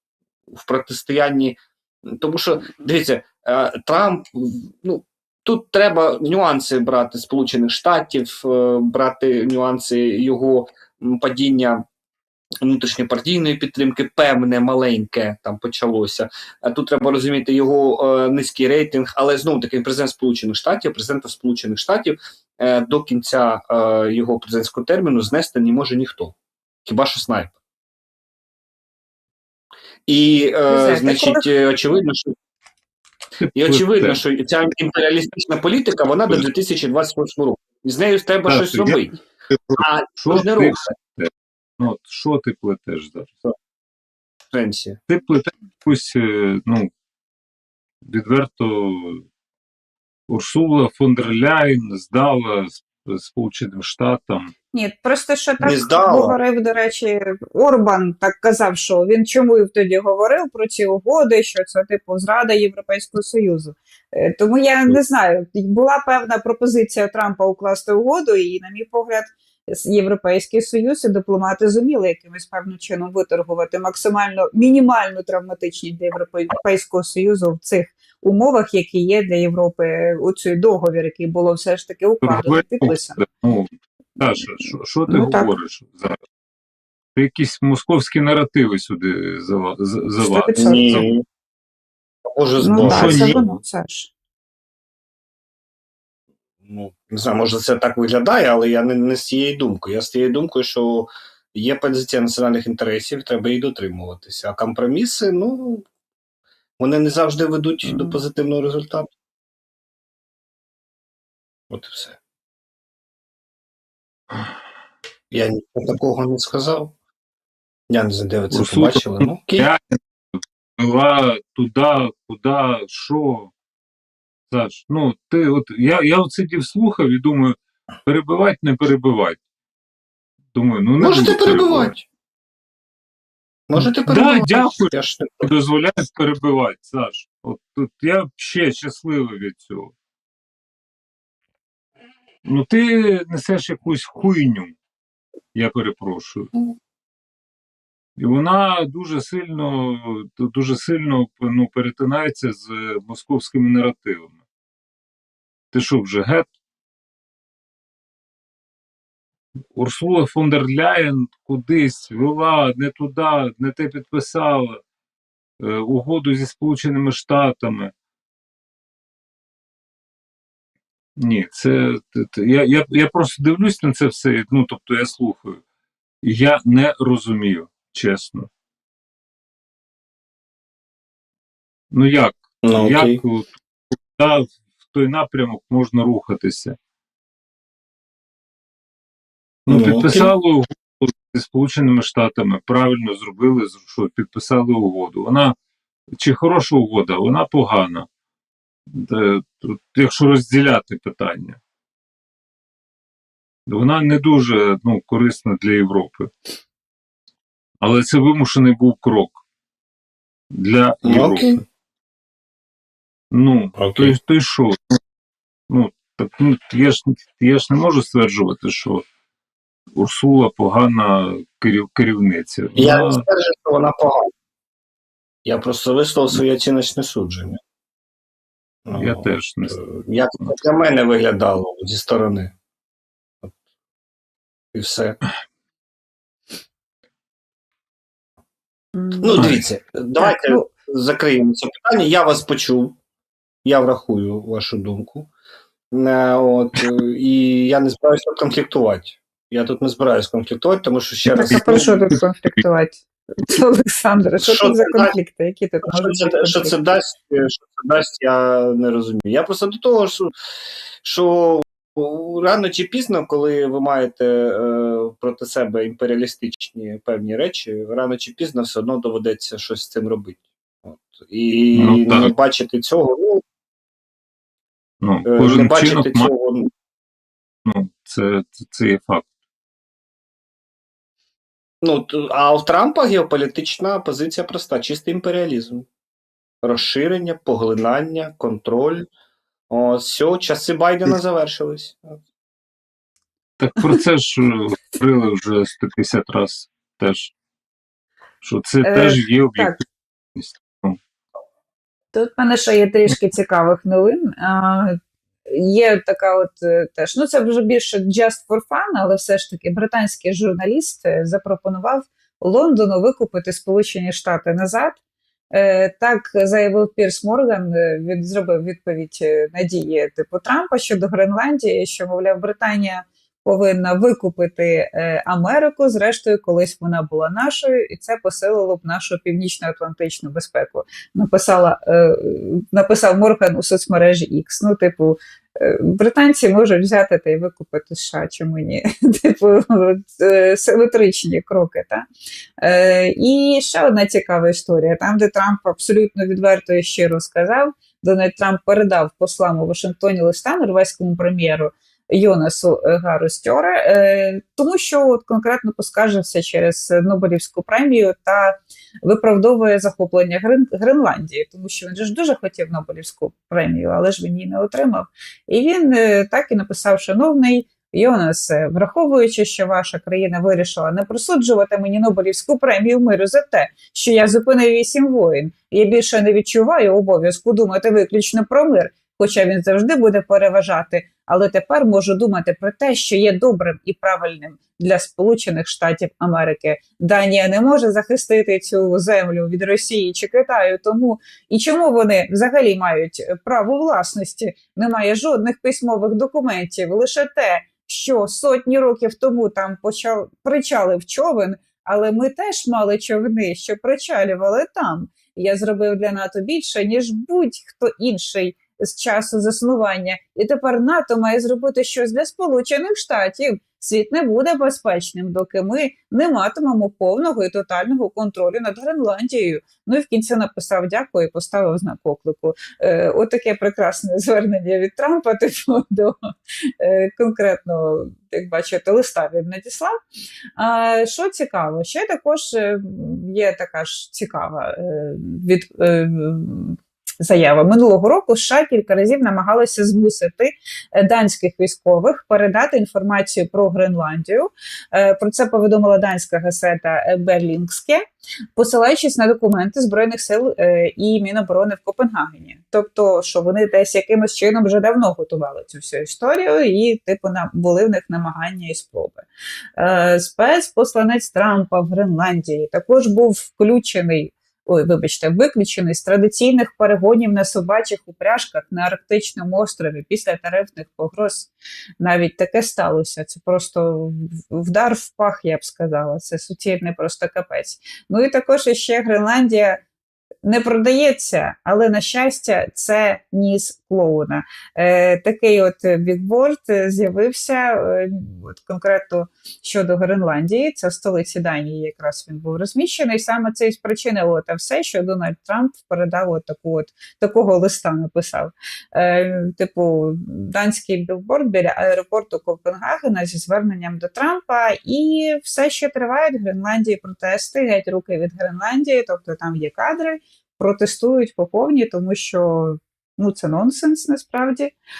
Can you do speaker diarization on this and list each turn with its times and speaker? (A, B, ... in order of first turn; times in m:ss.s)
0:00.5-0:11.8 A
0:12.6-0:27.5 A
0:30.1-0:32.3 A
0:30.7-0:31.5 B
0:33.4-0:34.2 C
0:33.5-0:39.1 A
0:38.5-0:43.4 C
0:39.8-0:40.9 A
0:44.5-0:45.0 A
0:45.1-0:46.9 C
0:48.0-0:49.2 C
0:50.3-0:54.5 C
0:54.7-1:23.2 B
0:55.6-0:56.4 A
1:22.2-1:26.2 C
1:25.1-1:25.5 B
1:27.1-1:31.0 C
1:30.2-1:31.0 B
1:30.5-1:31.2 A
1:32.3-1:33.4 A
1:32.6-1:34.1 B
1:32.8-1:33.5 C
1:36.6-1:45.8 A
1:46.8-1:49.1 A
1:47.8-1:48.2 B
1:51.7-1:52.2 A
1:55.3-1:56.9 A
1:57.9-1:59.7 A
1:58.5-2:03.5 C
2:04.5-2:09.4 C
2:10.5-2:11.9 C
2:11.0-2:12.0 A
2:13.7-2:15.5 A
2:13.8-2:19.9 C
2:22.4-2:24.7 C
2:25.5-2:26.5 C
2:28.2-2:34.3 C
2:35.7-2:36.5 C
2:39.7-2:44.8 C
2:45.6-2:47.9 C
2:51.2-2:55.6 C
2:56.2-2:58.5 C
3:01.9-3:03.5 C
3:02.6-3:03.2 A
3:04.1-3:06.8 C
3:09.6-3:15.5 C
3:09.7-3:10.3 A
3:16.1-3:18.1 C
3:18.9-3:21.6 C
3:23.7-3:26.3 C
3:27.8-3:29.4 C
3:30.5-3:31.6 C
3:31.0-3:31.6 A
3:33.3-3:35.0 C
3:33.8-3:34.1 A
3:35.7-3:39.0 C
3:39.9-3:43.2 C
3:42.8-3:44.3 A
3:45.4-3:47.6 A
3:48.8-3:52.5 A
3:48.9-3:49.8 C
3:54.7-3:55.2 A
3:59.0-3:59.5 B
3:59.2-4:03.0 A
3:59.4-3:59.6 C
4:00.2-4:00.7 B
4:03.6-4:05.3 A
4:05.9-4:12.0 A
4:11.3-4:16.7 B
4:14.4-4:15.1 A
4:15.9-4:20.3 A
4:21.0-4:33.4 A
4:31.7-4:32.3 C
4:35.0-4:36.3 C
4:35.2-4:36.7 A
4:37.6-4:39.3 C
4:41.8-4:45.9 A
4:46.6-4:49.1 A
4:49.7-4:52.2 A
4:53.6-4:57.3 C
4:58.4-4:59.8 C
4:58.8-4:59.8 B
5:00.3-5:01.0 C
5:02.1-5:15.0 B
5:15.5-5:42.0 B
5:42.6-7:06.2 B
7:06.7-7:10.0 B
7:10.6-7:28.0 B
7:28.6-7:39.2 B
7:39.8-7:59.8 B
8:00.4-8:34.7 B